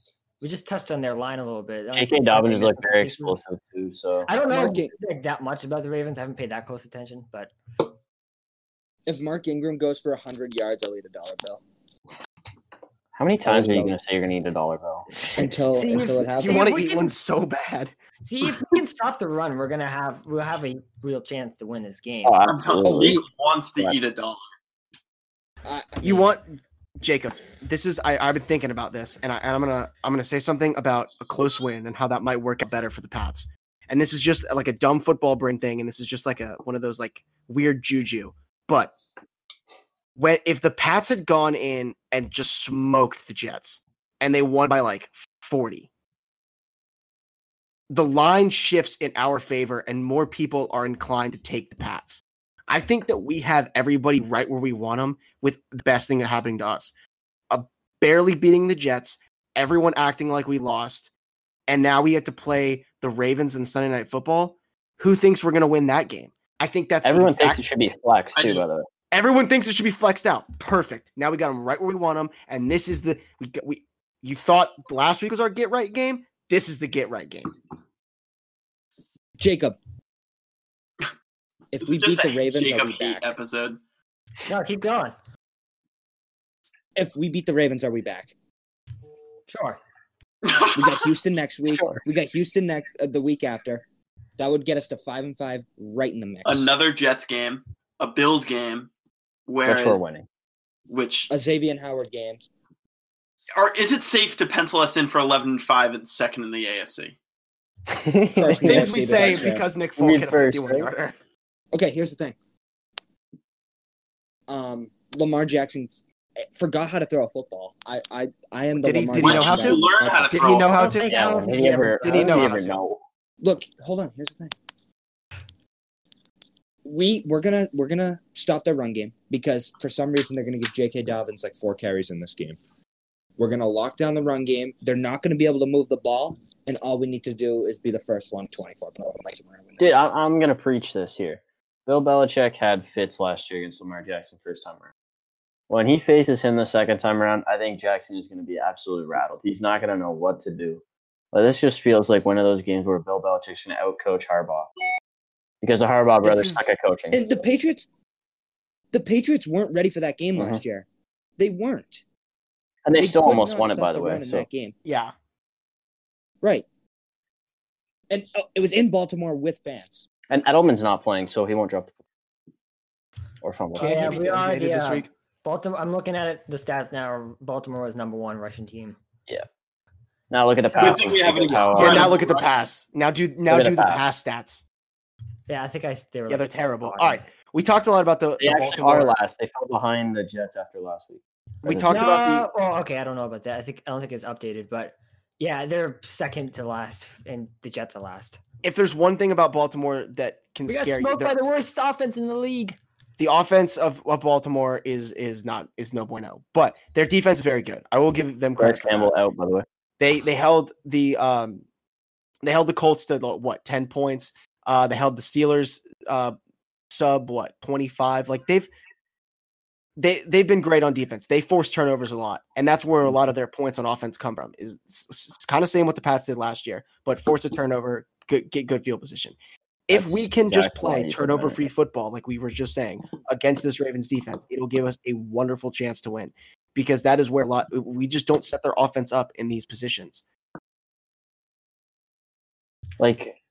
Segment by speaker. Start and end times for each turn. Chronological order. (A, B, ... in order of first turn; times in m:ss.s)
0:00.4-0:03.4 A
0:01.9-0:04.3 B
0:04.3-0:07.5 A
0:04.5-0:04.9 C
0:09.0-0:11.6 C
0:13.2-0:15.1 B
0:13.4-0:14.0 C
0:15.1-0:17.1 A
0:15.4-0:16.8 C
0:16.4-0:17.9 D
0:18.2-0:22.4 A
0:22.2-0:23.2 B
0:22.5-0:24.4 E
0:25.6-0:26.4 C
0:26.0-0:38.9 D
0:40.2-0:45.9 D
0:47.9-0:56.9 D
0:57.5-1:01.1 D
1:01.7-1:07.6 D
1:07.0-1:08.9 B
1:08.4-1:08.6 E
1:09.1-1:17.5 D
1:19.4-1:19.8 C
1:21.7-1:23.4 C
1:21.8-1:23.8 E
1:24.4-1:25.1 A
1:27.0-1:28.3 C
1:29.5-1:29.8 A
1:30.4-1:31.1 E
1:30.7-1:33.8 C
1:31.7-1:32.0 B
1:34.4-1:36.7 C
1:36.4-1:38.9 E
1:39.5-1:40.0 E
1:39.6-1:40.2 B
1:40.9-1:41.3 E
1:41.3-1:42.4 C
1:43.5-1:47.1 E
1:47.9-1:50.9 B
1:48.3-1:49.6 C
1:48.6-1:51.1 D
1:51.7-1:52.4 C
1:54.5-2:00.5 C
1:58.8-2:01.1 D
1:59.2-2:01.0 E
2:00.8-2:02.4 A
2:01.0-2:03.0 B
2:02.0-2:02.8 D
2:02.1-2:02.4 C
2:03.4-2:04.5 C
2:06.8-2:12.6 C
2:13.4-2:20.0 C
2:19.8-2:24.9 B
2:25.7-2:34.7 B
2:35.6-2:37.2 B
2:36.2-2:36.7 D
2:37.1-2:37.9 C
2:38.9-2:40.8 C
2:40.4-2:40.6 B
2:41.4-2:42.0 C
2:42.8-2:44.4 B
2:43.0-2:44.7 C
2:44.8-2:45.1 D
2:48.1-2:50.1 C
2:50.3-2:51.9 B
2:53.4-2:54.3 B
2:53.7-2:55.1 D
2:53.8-2:59.0 A
3:00.3-3:02.2 B
3:00.8-3:02.5 E
3:01.7-3:04.6 D
3:03.5-3:04.0 B
3:05.5-3:07.3 A
3:06.3-3:09.1 D
3:08.4-3:12.3 B
3:11.6-3:12.5 D
3:11.9-3:18.4 A
3:18.6-3:21.4 D
3:20.6-3:22.8 A
3:23.2-3:29.1 D
3:28.6-3:29.6 B
3:30.0-3:31.6 D
3:32.4-3:36.4 D
3:36.9-3:38.7 D
3:40.0-3:49.4 D
3:49.9-4:00.2 D
3:49.9-3:51.7 B
4:03.0-4:03.4 B